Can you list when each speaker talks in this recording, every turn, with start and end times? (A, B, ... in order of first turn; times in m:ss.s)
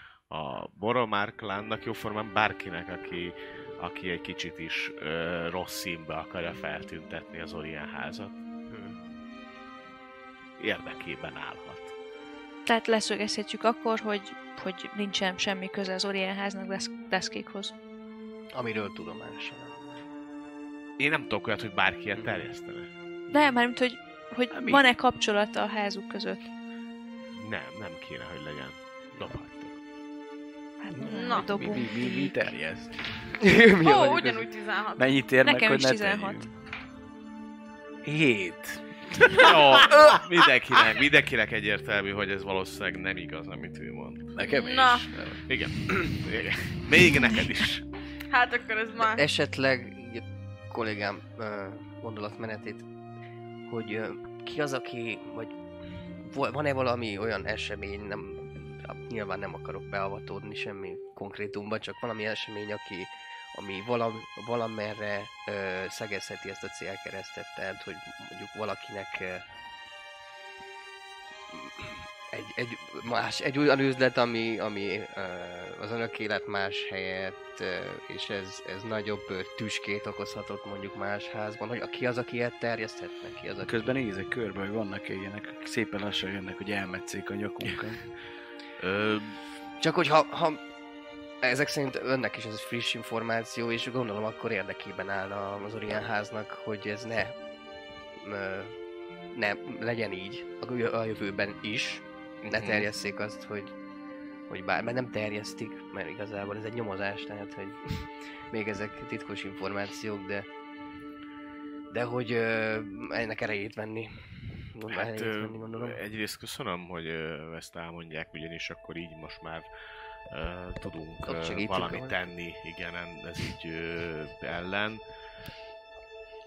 0:00.3-0:08.4 A
0:08.7-0:09.0 B
0:10.6-0:11.9 A
0:12.6-0:17.7 C
0:18.5-0:19.9 B
0:21.0-0:22.9 A
0:22.2-0:22.5 B
0:23.3-0:26.5 C
0:24.5-0:24.8 D
0:27.4-0:29.7 A
0:30.8-0:32.5 C
0:30.9-0:33.1 D
0:31.1-0:31.6 E
0:33.4-0:34.4 B
0:33.8-0:35.2 E
0:35.0-0:36.5 D
0:35.4-0:36.4 C
0:38.0-0:40.2 D
0:39.4-0:44.3 A
0:44.3-0:46.2 D
0:44.4-0:45.1 E
0:45.4-0:47.8 A
0:48.3-0:49.2 E
0:49.0-0:52.8 B
0:53.7-0:55.6 B
0:56.2-1:09.4 B
1:11.5-1:24.0 B
1:23.6-1:28.0 D
1:28.8-1:29.4 A
1:29.8-1:30.6 B
1:31.4-1:37.4 B
1:38.2-1:38.7 B
1:39.3-1:43.7 B
1:42.5-1:42.9 A
1:44.5-1:50.5 B
1:51.9-1:56.0 B
1:54.9-1:59.7 A
2:00.3-2:05.0 A
2:01.2-2:02.2 B